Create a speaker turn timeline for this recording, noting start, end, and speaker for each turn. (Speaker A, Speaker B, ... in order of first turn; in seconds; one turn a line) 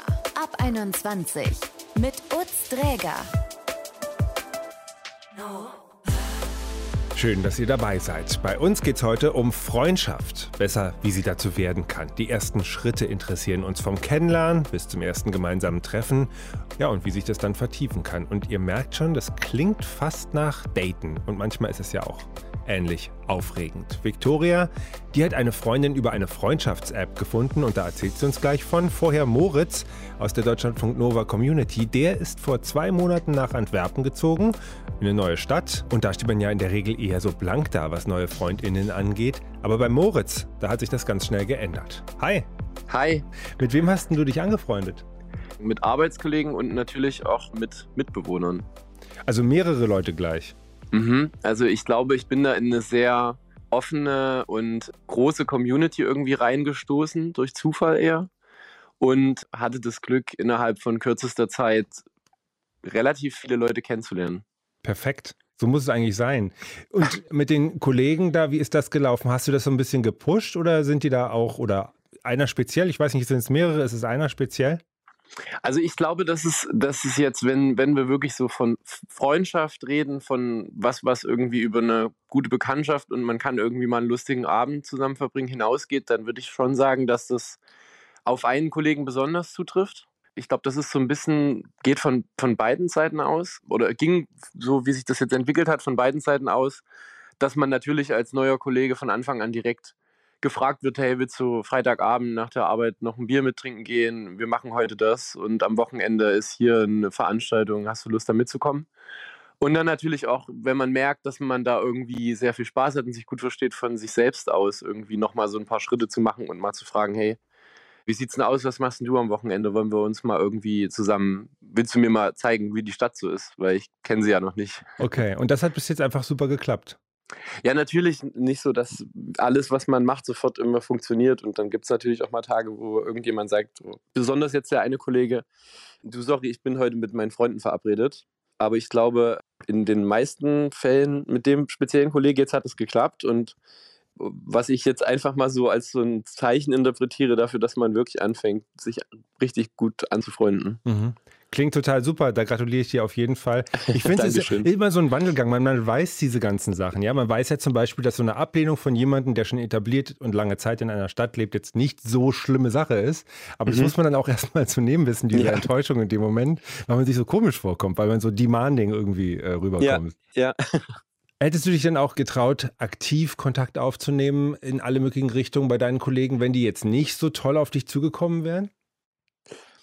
Speaker A: 0.3-3.3
Speaker B: 7.2-42.5
Speaker C: 42.9-43.2
Speaker B: 43.6-45.0
Speaker C: 45.6-48.7
Speaker B: 49.3-50.5
Speaker C: 50.9-58.3
Speaker C: 59.0-62.0
Speaker C: 62.8-64.4
Speaker B: 64.8-74.8
Speaker C: 75.6-87.6
Speaker C: 88.3-96.8
Speaker C: 97.4-108.9
Speaker C: 109.6-117.4
Speaker C: 118.1-124.8
Speaker B: 125.0-127.0
Speaker C: 127.6-135.5
Speaker C: 136.0-143.6
Speaker C: 144.2-150.8
Speaker B: 150.8-170.2
Speaker C: 153.9-154.7
Speaker C: 163.7-163.9
Speaker C: 165.3-165.7
Speaker C: 169.8-170.6
Speaker B: 171.4-178.7